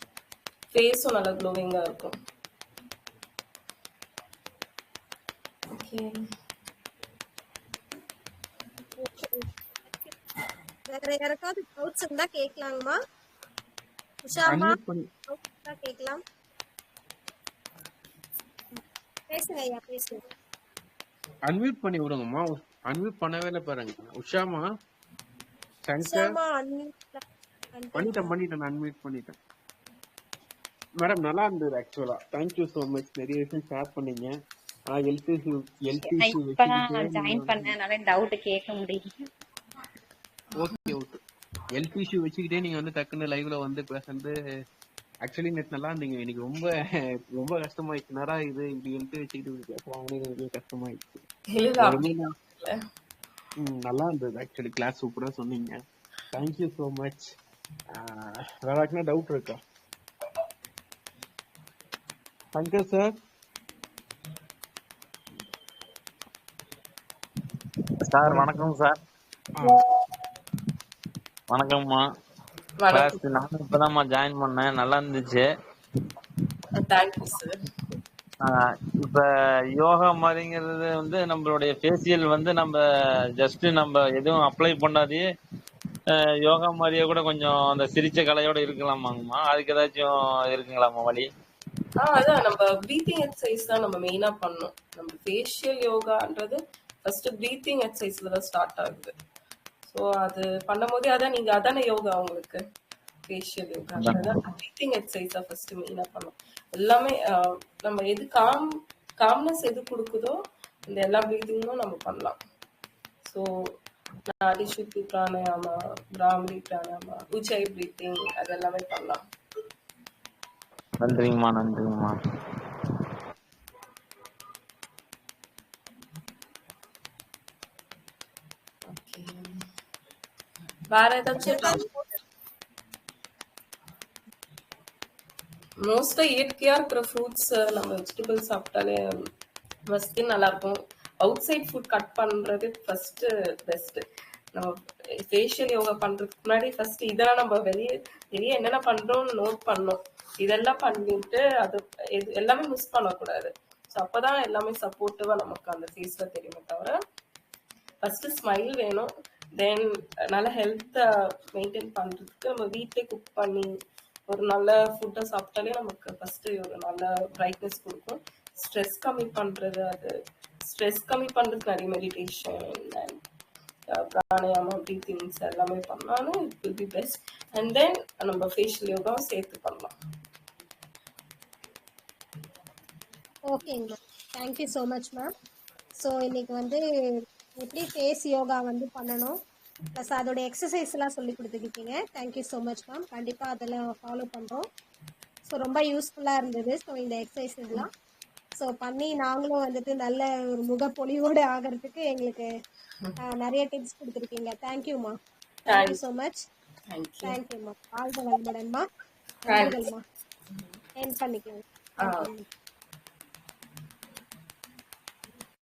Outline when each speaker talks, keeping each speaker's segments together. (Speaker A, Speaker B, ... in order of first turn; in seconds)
Speaker A: 0.7-2.1, 5.7-6.2, 51.5-52.8, 72.8-73.2, 76.7-77.6, 92.0-99.1, 99.9-102.6, 103.3-110.4, 110.9-112.4, 114.3-119.2, 128.9-129.5, 130.9-131.8, 135.8-139.0, 139.9-144.0, 145.3-157.0, 158.0-163.7, 164.3-173.2, 173.9-179.9, 205.7-206.0, 206.9-207.4, 209.5-209.8, 212.0-212.3
Speaker B: 9.0-9.4, 10.9-13.0, 14.2-14.8, 15.3-16.2, 18.7-20.2, 26.0-27.2, 27.7-28.3, 131.4-131.9, 183.5-185.3, 185.9-189.4, 189.9-194.7, 195.4-197.9, 198.6-202.5, 203.2-205.2, 205.7-206.5, 207.2-208.9, 209.5-210.0, 211.0-212.4
Speaker C: 14.4-15.1, 21.5-24.6, 25.9-26.4, 27.9-29.4, 31.0-34.3, 34.9-37.8, 40.6-41.2, 41.7-44.4, 45.2-46.8, 47.4-51.2, 51.8-52.3, 53.6-55.8, 56.3-57.3, 57.9-59.6, 62.5-63.1, 68.3-68.5, 69.6-69.8
Speaker D: 36.0-39.1
Speaker E: 68.0-69.0, 71.5-72.0, 72.9-75.4, 78.4-79.2, 79.8-82.8, 83.4-85.2, 86.1-91.3, 104.0-104.4, 121.0-122.2